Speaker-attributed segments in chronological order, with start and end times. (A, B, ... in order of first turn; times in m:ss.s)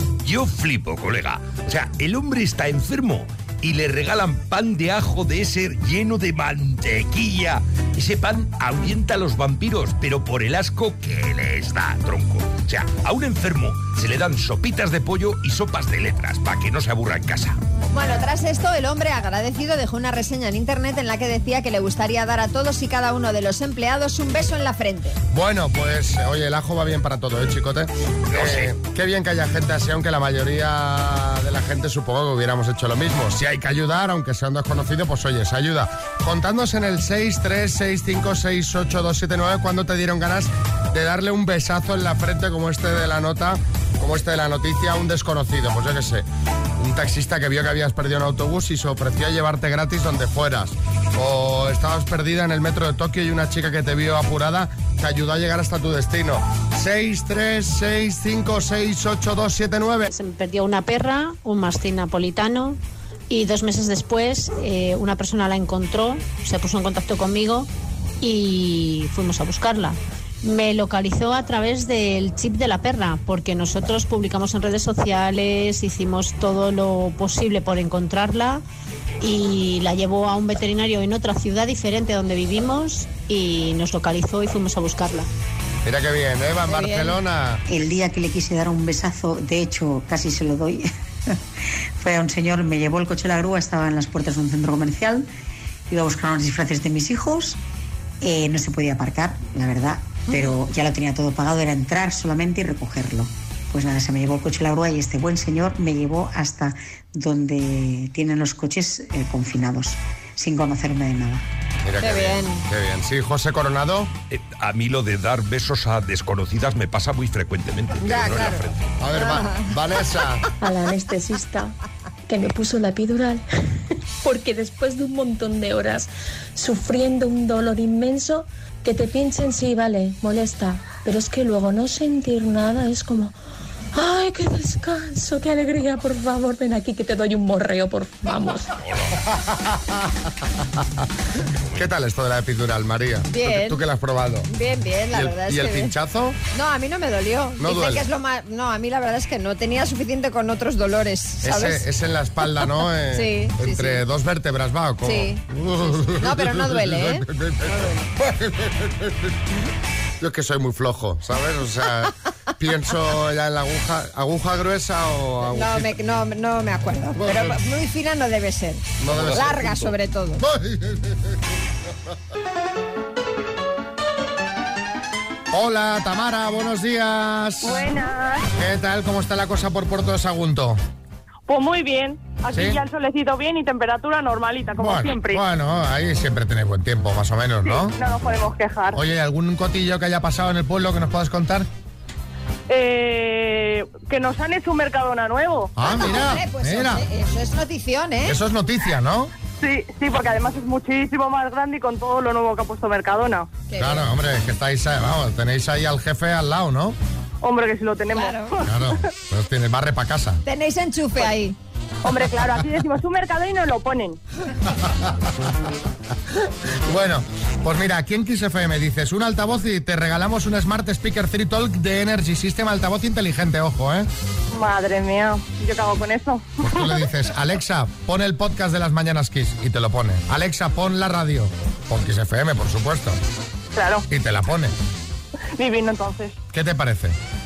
0:00.2-0:17.6 A
0:17.9-0:25.2 B
0:25.3-0:46.3 C
0:28.3-0:28.7 A
0:46.8-1:00.1 C
1:00.1-1:02.8 D
1:03.3-1:07.7 D
1:08.2-1:18.6 D
1:19.2-1:25.3 D
1:25.8-1:27.6 C
1:26.7-1:27.2 B
1:27.7-1:31.4 E
1:32.0-1:35.3 E
1:35.9-1:37.6 E
1:38.2-1:51.4 E
1:51.8-1:54.1 C
1:52.0-1:52.6 B
1:54.3-1:59.0 A
1:58.0-1:59.7 B
1:59.0-2:00.5 C
2:00.6-2:01.8 F
2:02.3-2:03.4 F
2:04.2-2:13.4 F
2:13.9-2:18.8 F
2:18.8-2:19.2 A
2:19.4-2:19.9 C
2:21.8-2:24.5 C
2:23.3-2:23.8 B
2:24.5-2:25.9 B
2:25.1-2:26.4 C
2:26.5-2:31.9 B
2:27.6-2:28.0 C
2:31.4-2:39.1 C
2:33.1-2:34.0 B
2:35.0-2:38.0 B
2:40.2-2:45.9 C
2:45.5-2:50.4 B
2:47.2-2:47.6 C
2:49.0-2:49.8 C
2:50.4-2:51.2 C
2:55.5-2:57.9 C
2:57.6-2:58.5 G
2:58.5-3:00.8 C
3:01.5-3:05.4 G
3:02.5-3:02.8 C
3:04.8-3:08.0 C
3:07.6-3:09.0 G
3:08.9-3:11.7 C
3:12.7-3:15.7 G
3:15.8-3:17.0 C
3:15.8-3:18.4 B
3:18.3-3:19.3 C
3:19.6-3:23.5 G
3:23.7-3:24.1 B
3:23.8-3:27.0 C
3:27.4-3:28.7 G
3:28.1-3:28.6 B
3:28.6-3:30.4 C
3:30.4-3:31.6 B
3:32.0-3:34.2 G
3:34.8-3:35.1 C
3:36.9-3:44.1 C
3:44.5-3:47.0 G
3:46.6-3:53.2 C
3:53.7-3:54.1 G
3:54.1-3:54.7 C
3:55.6-3:56.4 G
3:56.5-3:57.2 C